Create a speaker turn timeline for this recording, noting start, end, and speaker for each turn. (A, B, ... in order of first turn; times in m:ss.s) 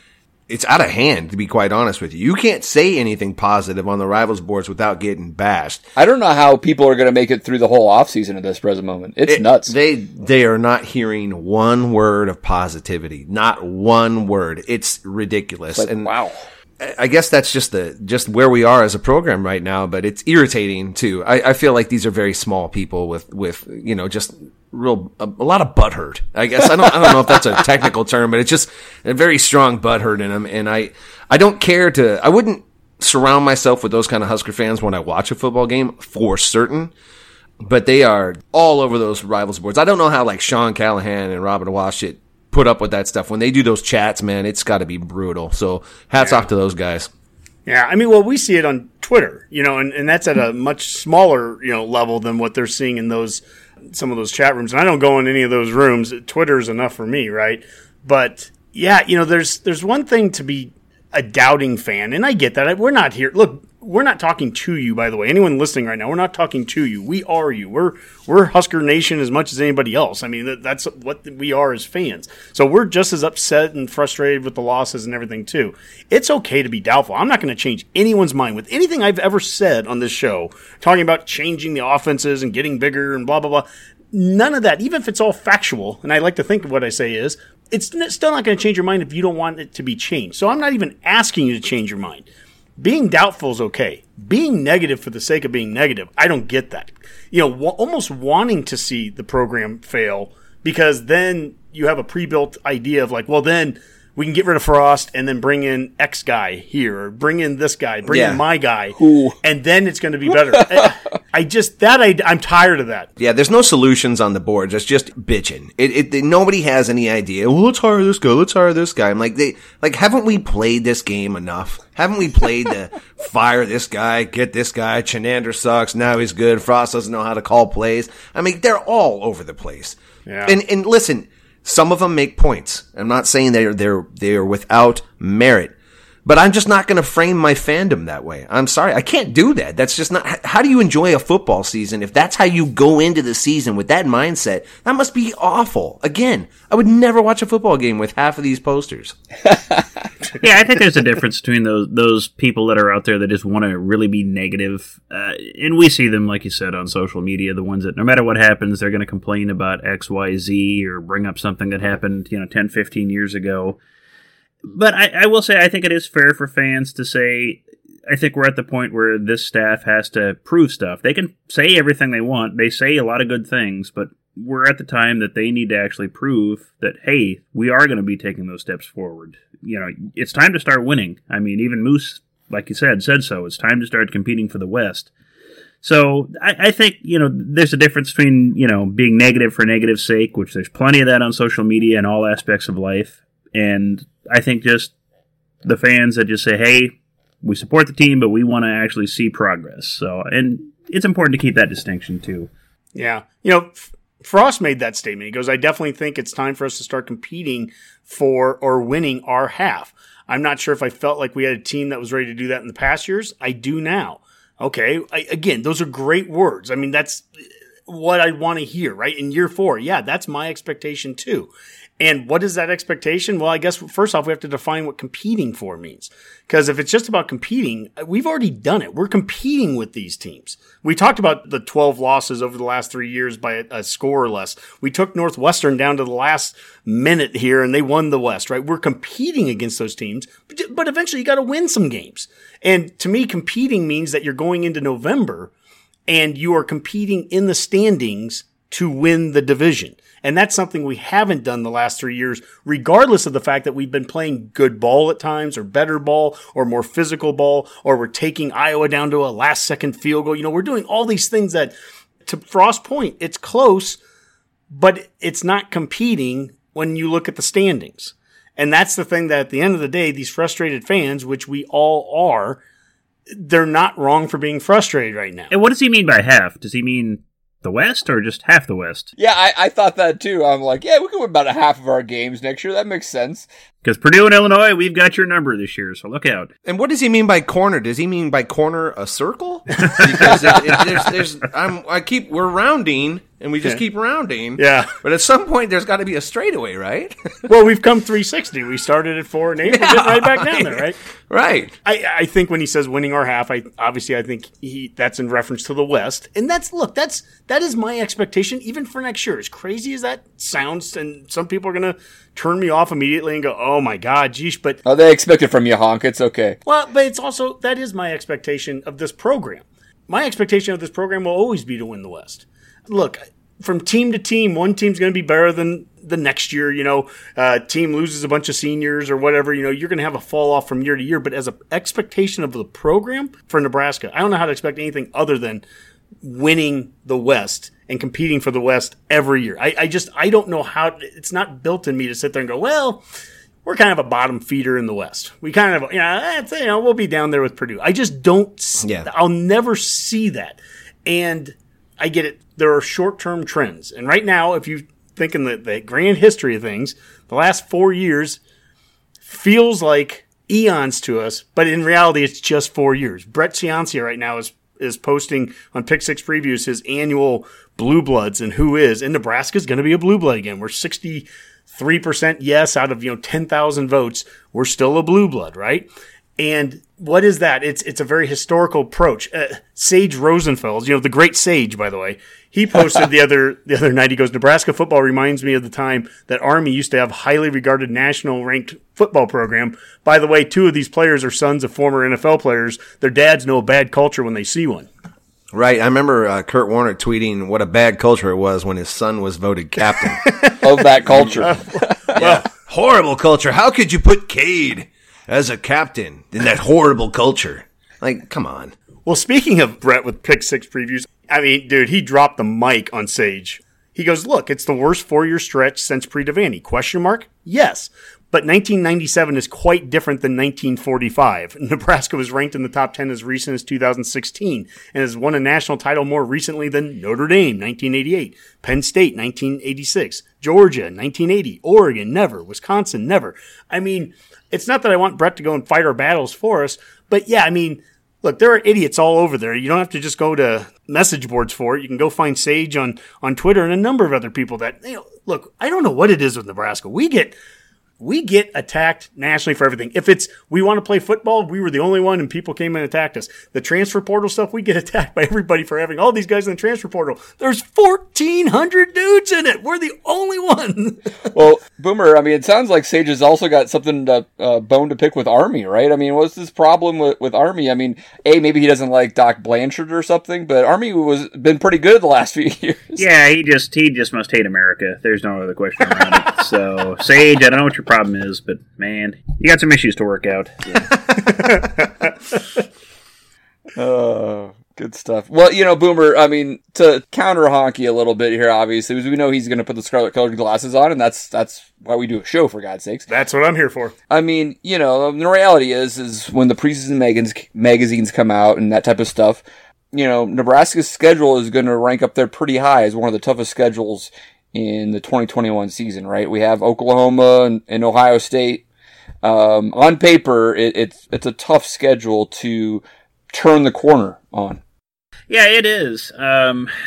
0:00.5-0:05.8 A
0:06.0-0:09.7 B
0:09.2-0:16.1 A
0:15.7-0:16.3 B
0:16.8-0:36.9 A
0:37.6-0:47.1 A
0:46.2-0:46.4 C
0:47.6-1:32.3 C
1:32.8-1:53.1 C
1:48.0-1:48.4 A
1:49.0-1:49.4 B
1:50.5-1:50.8 B
1:53.2-2:15.7 A
2:10.2-2:10.6 C
2:16.2-2:29.2 A
2:30.4-2:43.8 D
2:44.6-3:05.1 D
3:05.8-3:14.9 D
3:15.6-3:22.5 D
3:22.9-3:37.3 C
3:37.9-4:05.5 C
4:06.1-4:21.7 C
4:22.2-4:24.0 C
4:24.7-4:32.6 C
4:33.3-4:35.5 C
4:35.5-4:39.1 D
4:39.2-4:43.5 B
4:43.8-4:46.5 D
4:46.6-4:57.1 A
4:49.8-4:50.7 C
4:54.6-4:54.9 C
4:57.4-5:01.0 C
4:59.6-5:01.7 A
5:01.8-5:14.8 C
5:14.8-5:16.6 B
5:16.6-5:35.6 C
5:36.2-5:43.0 C
5:43.6-5:58.4 C
5:48.8-5:49.1 A
5:59.2-6:34.9 C
6:35.5-6:40.3 A
6:40.2-6:40.6 C
6:40.6-6:42.1 B
6:41.1-6:41.5 A
6:41.4-6:42.4 C
6:42.1-6:48.7 A
6:49.0-7:27.3 C
7:28.0-7:41.1 C
7:41.3-7:53.0 B
7:53.0-8:00.7 D
8:03.8-8:13.1 B
8:13.1-8:13.9 C
8:14.1-8:19.4 B
8:19.9-8:28.6 B
8:29.2-8:34.6 B
8:35.3-8:36.7 D